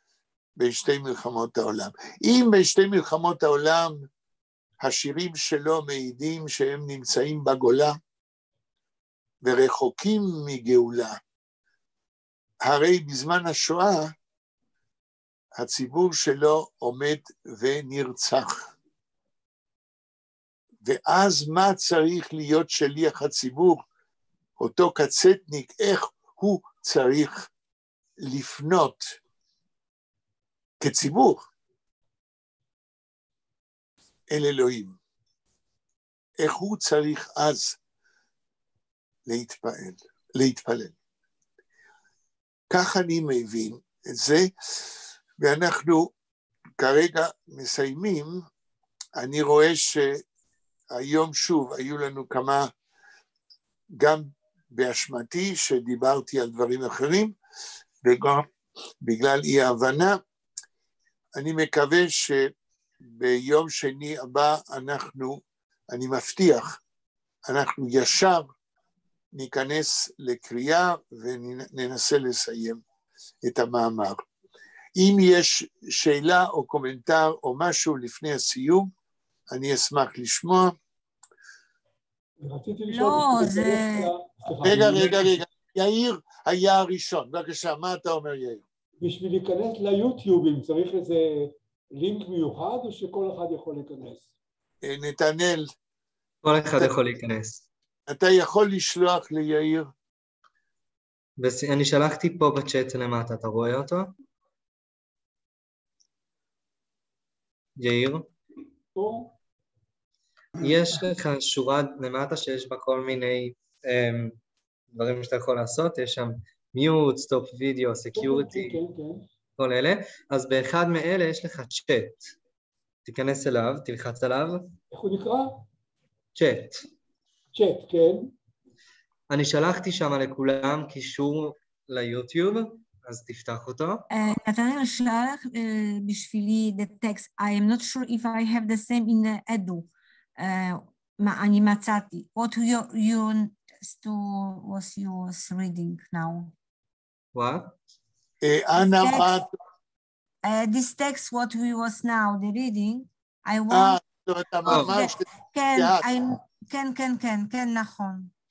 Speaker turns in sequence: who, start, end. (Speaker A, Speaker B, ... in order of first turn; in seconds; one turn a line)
Speaker A: 0.6-4.1
Speaker A: 4.8-8.0
Speaker A: 9.4-11.2
Speaker A: 12.6-14.1
Speaker A: 15.6-18.7
Speaker A: 20.8-23.8
Speaker A: 24.6-27.5
Speaker A: 28.2-29.2
Speaker A: 30.8-31.5
Speaker A: 34.3-35.0
Speaker A: 36.4-37.8
Speaker A: 39.3-41.0
Speaker A: 42.7-46.1
Speaker A: 46.8-48.4
Speaker A: 49.2-50.2
Speaker A: 50.9-52.7
Speaker A: 53.9-57.4
Speaker A: 58.0-58.5
Speaker A: 59.0-60.2
Speaker A: 61.4-66.8
Speaker A: 67.5-68.5
Speaker A: 69.3-72.8
Speaker A: 73.4-74.2
Speaker A: 75.0-78.9
Speaker A: 79.5-80.8
Speaker B: 82.4-85.4
Speaker C: 82.9-84.1
Speaker A: 84.6-88.6
Speaker B: 89.0-94.3
Speaker A: 94.8-95.7
Speaker D: 96.4-97.7
Speaker A: 98.1-99.9
Speaker D: 101.4-104.1
Speaker D: 107.8-108.3
Speaker B: 109.0-109.3
Speaker D: 110.6-114.4
Speaker D: 114.9-118.8
Speaker B: 118.2-119.2
Speaker D: 119.6-122.3
Speaker D: 123.1-124.7
Speaker B: 124.9-125.7
Speaker D: 126.4-126.8
Speaker B: 127.5-128.3
Speaker D: 129.3-134.1
Speaker C: 134.1-146.5
Speaker D: 147.3-147.7
Speaker A: 148.4-149.5
Speaker C: 148.8-149.3
Speaker C: 150.4-154.0
Speaker A: 153.7-156.0
Speaker C: 154.7-158.3
Speaker D: 154.7-155.0